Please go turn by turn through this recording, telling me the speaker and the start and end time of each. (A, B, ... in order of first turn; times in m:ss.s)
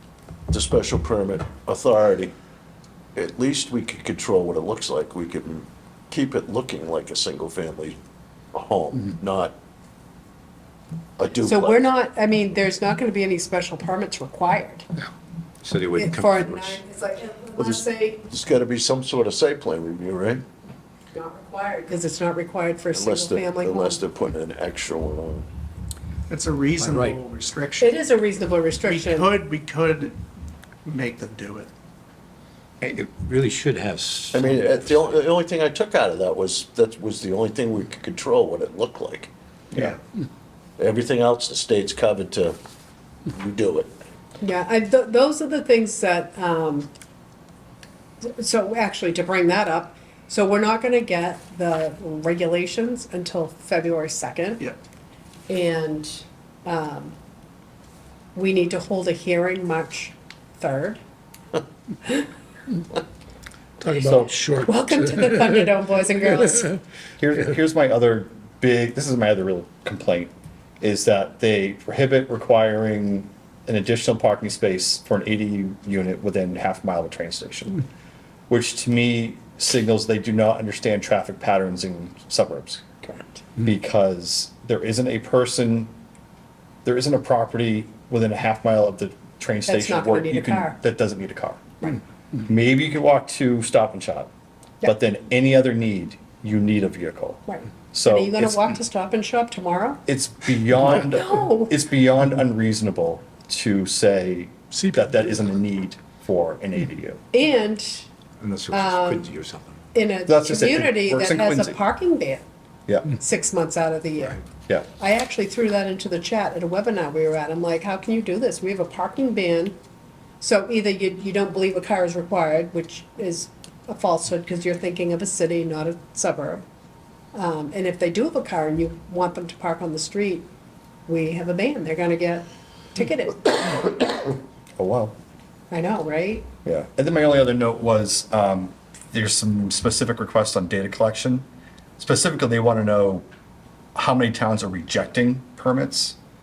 0:00.5-0:02.3 A
0:03.1-0:08.0 A
0:08.5-0:09.5 A
0:11.2-0:11.8 A
0:11.4-0:14.9 B
0:15.6-0:16.8 C
0:15.9-0:18.2 B
0:17.6-0:20.4 A
0:21.1-0:24.0 B
0:22.9-0:25.5 A
0:26.3-0:28.0 D
0:26.8-0:27.2 C
0:27.8-0:29.4 B
0:28.8-0:30.2 D
0:30.8-0:31.7 D
0:32.8-0:35.1 C
0:34.3-0:40.0 A
0:40.8-0:42.6 A
0:43.3-0:43.9 A
0:44.4-0:46.9 B
0:48.2-0:54.7 B
0:55.5-0:57.1 B
0:58.3-1:01.0 B
1:03.8-1:04.6 E
1:04.4-1:06.8 B
1:07.2-1:17.8 E
1:18.5-1:25.9 E
1:26.8-1:31.6 E
1:29.7-1:30.8 B
1:32.4-1:34.3 E
1:34.8-1:37.4 E
1:37.5-1:40.0 B
1:37.9-1:38.6 E
1:40.1-1:47.2 E
1:40.9-1:41.7 B
1:47.3-1:48.1 B
1:48.4-1:49.8 C
1:48.7-1:49.3 B
1:49.9-1:52.4 B
1:50.3-1:51.8 E
1:52.9-1:53.1 E
1:53.1-1:54.4 B
1:55.0-1:59.7 B
2:00.4-2:06.6 B
2:07.3-2:10.5 B
2:11.1-2:14.0 B
2:14.8-2:15.2 E
2:15.7-2:16.5 B
2:16.6-2:21.4 E
2:22.0-2:23.2 E
2:23.9-2:26.2 E